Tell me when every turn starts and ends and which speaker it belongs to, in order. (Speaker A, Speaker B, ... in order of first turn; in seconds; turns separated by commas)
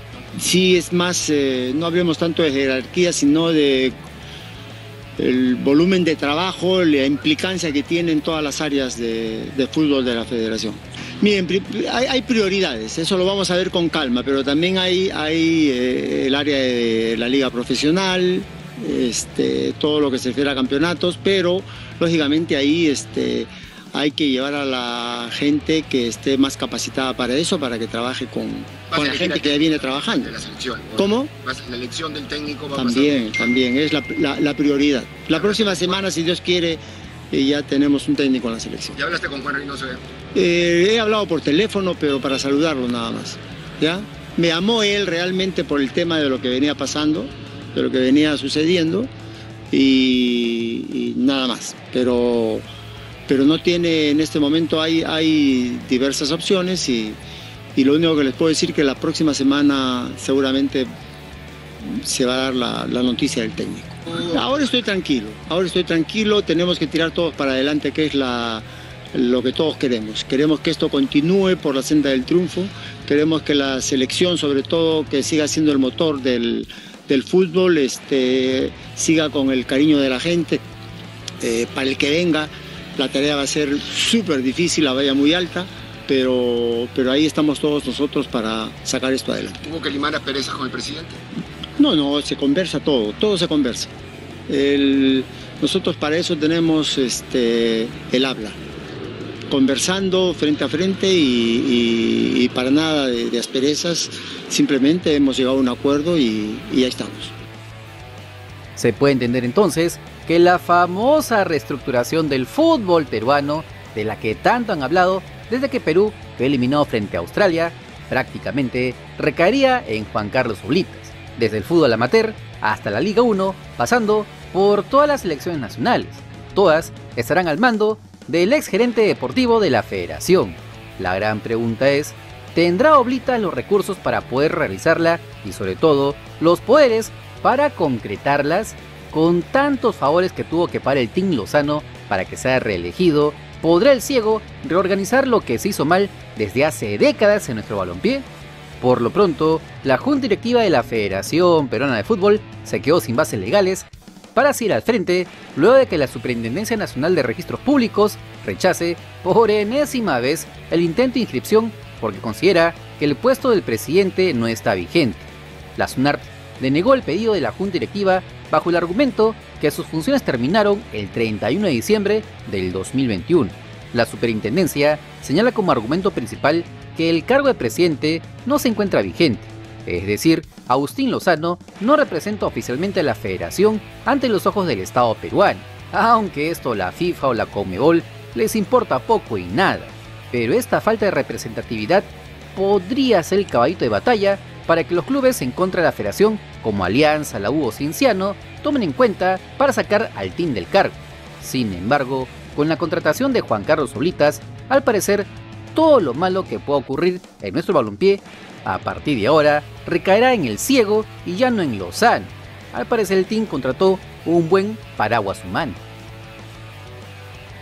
Speaker A: 0.4-3.9, Speaker A: 5.2-30.4, Speaker B: 28.9-33.6, Speaker A: 31.0-31.3, Speaker A: 32.8-36.8, Speaker B: 35.4-36.0, Speaker A: 37.3-39.0, Speaker B: 39.0-40.0, Speaker A: 40.3-49.1, Speaker A: 49.7-52.6, Speaker A: 53.3-57.2, Speaker A: 57.7-60.9, Speaker A: 61.8-80.6, Speaker A: 81.4-89.6, Speaker B: 89.6-91.2, Speaker A: 91.8-93.9, Speaker A: 94.5-98.6, Speaker A: 99.5-107.3, Speaker C: 108.8-148.2, Speaker C: 148.8-215.8